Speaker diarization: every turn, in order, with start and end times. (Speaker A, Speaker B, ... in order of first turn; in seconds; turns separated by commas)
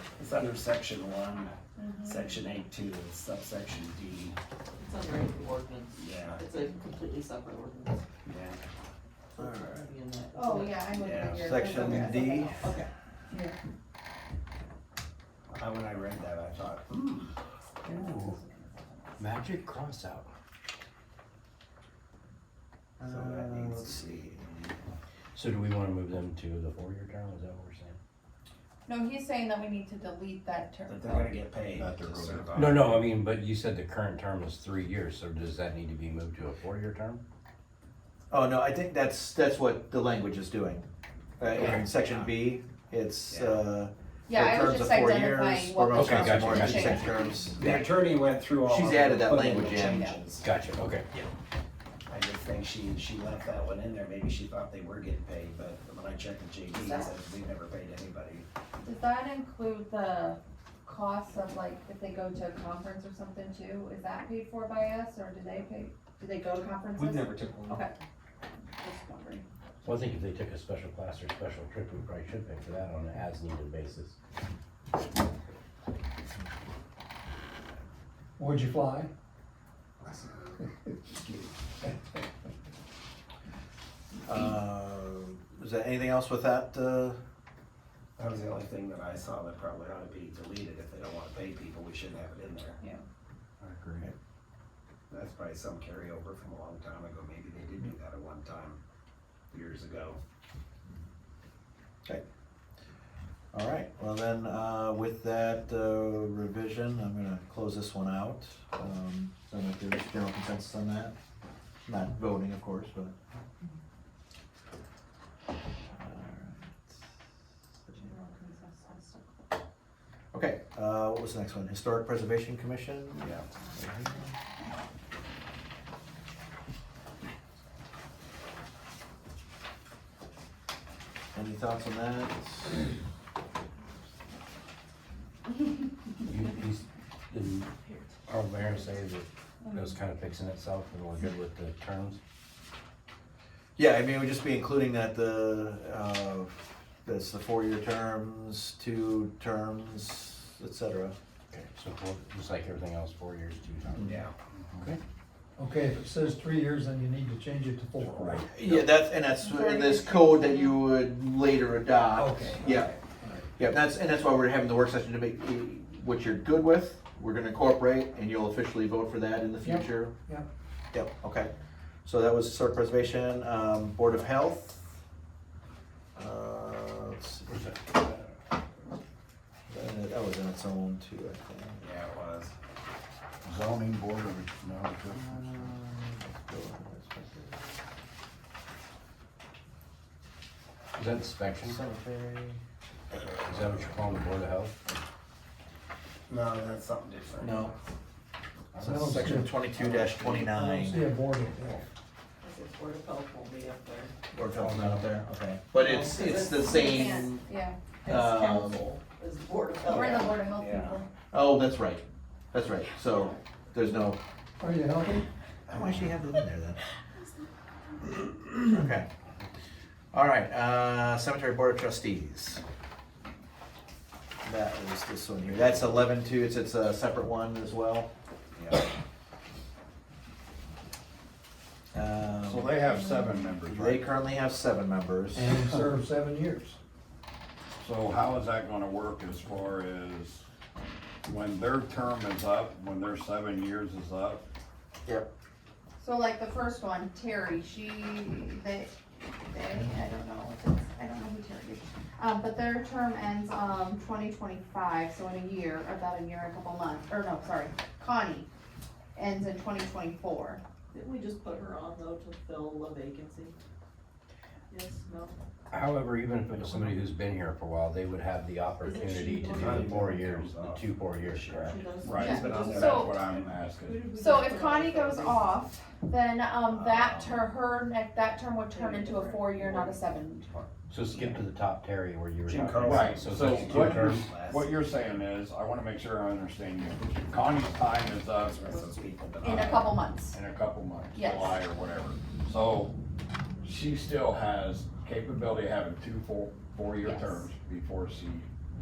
Speaker A: 0.2-4.4, Speaker B: 1.8-2.4, Speaker C: 4.8-8.0, Speaker A: 6.0-6.4, Speaker A: 8.2-8.6, Speaker D: 9.4-9.9, Speaker C: 9.4-11.2, Speaker B: 10.3-12.8, Speaker A: 10.9-11.9, Speaker D: 11.2-12.7, Speaker C: 12.6-12.9, Speaker A: 15.5-17.3, Speaker E: 17.8-18.4, Speaker B: 17.9-19.2, Speaker E: 19.2-20.3, Speaker D: 23.0-24.4, Speaker A: 23.0-24.9, Speaker E: 25.4-28.0, Speaker B: 28.9-31.2, Speaker A: 30.9-33.0, Speaker F: 31.1-32.6, Speaker E: 32.5-37.2, Speaker D: 38.3-40.9, Speaker D: 41.4-47.9, Speaker A: 41.5-42.3, Speaker A: 43.3-43.7, Speaker B: 44.3-47.5, Speaker E: 45.9-47.2, Speaker A: 47.6-50.4, Speaker D: 48.6-50.1, Speaker B: 49.7-50.2, Speaker E: 50.4-51.1, Speaker A: 52.1-58.5, Speaker B: 56.7-57.1, Speaker B: 58.8-67.9, Speaker A: 67.0-67.7, Speaker B: 68.8-69.5, Speaker E: 69.8-74.2, Speaker G: 78.4-79.1, Speaker A: 81.1-81.5, Speaker D: 84.3-87.2, Speaker A: 88.2-92.8, Speaker E: 93.6-94.1, Speaker A: 95.1-98.8, Speaker A: 99.5-100.2, Speaker D: 103.5-111.1, Speaker D: 111.9-113.1, Speaker D: 116.0-116.7, Speaker B: 117.9-119.4, Speaker D: 120.3-124.3, Speaker D: 131.3-132.8, Speaker E: 136.2-142.2, Speaker B: 139.6-139.9, Speaker D: 143.8-151.2, Speaker E: 151.5-155.0, Speaker A: 154.0-154.3, Speaker G: 155.6-158.4, Speaker F: 158.0-158.3, Speaker D: 158.4-162.9, Speaker B: 158.6-160.8, Speaker G: 162.2-162.7, Speaker D: 163.6-170.1, Speaker G: 169.6-170.5, Speaker D: 170.9-171.5, Speaker D: 172.1-174.8, Speaker D: 176.2-178.2, Speaker E: 177.5-177.9, Speaker D: 179.7-181.8, Speaker A: 181.8-182.5, Speaker F: 183.4-185.3, Speaker E: 183.7-185.7, Speaker D: 185.1-187.8, Speaker E: 190.9-191.8, Speaker D: 191.6-192.6, Speaker E: 193.4-194.8, Speaker A: 196.3-197.7, Speaker D: 197.4-197.7, Speaker D: 198.8-201.1, Speaker G: 198.8-199.6, Speaker A: 199.8-200.4, Speaker G: 200.4-201.9, Speaker C: 202.4-204.1, Speaker D: 204.3-207.3, Speaker E: 204.5-205.1, Speaker C: 205.8-207.4, Speaker B: 206.6-207.8, Speaker C: 208.0-210.3, Speaker D: 208.1-208.8, Speaker B: 209.9-211.1, Speaker A: 209.9-211.0, Speaker D: 211.3-214.2, Speaker C: 213.0-213.4, Speaker G: 214.6-215.2, Speaker D: 215.7-216.8, Speaker D: 218.6-219.1, Speaker D: 220.1-222.6, Speaker D: 224.4-228.1, Speaker A: 225.5-225.9, Speaker D: 231.9-232.8, Speaker F: 232.4-234.1, Speaker D: 233.6-235.7, Speaker G: 235.3-236.8, Speaker F: 237.8-240.4, Speaker F: 241.3-244.4, Speaker B: 246.0-258.5, Speaker B: 259.1-260.6, Speaker C: 260.9-263.6, Speaker C: 264.7-265.4, Speaker E: 265.7-271.9, Speaker C: 268.8-270.1, Speaker A: 269.5-273.9, Speaker C: 271.6-273.1, Speaker F: 272.0-273.9, Speaker B: 272.1-273.2, Speaker C: 273.8-275.6, Speaker B: 274.2-280.5, Speaker A: 276.7-277.5, Speaker C: 278.7-280.0, Speaker E: 280.9-284.3, Speaker A: 282.5-285.0, Speaker F: 282.8-288.6, Speaker A: 288.4-289.9, Speaker B: 289.4-290.4, Speaker F: 289.5-292.9, Speaker B: 291.1-291.6, Speaker F: 293.6-298.5, Speaker B: 297.0-297.5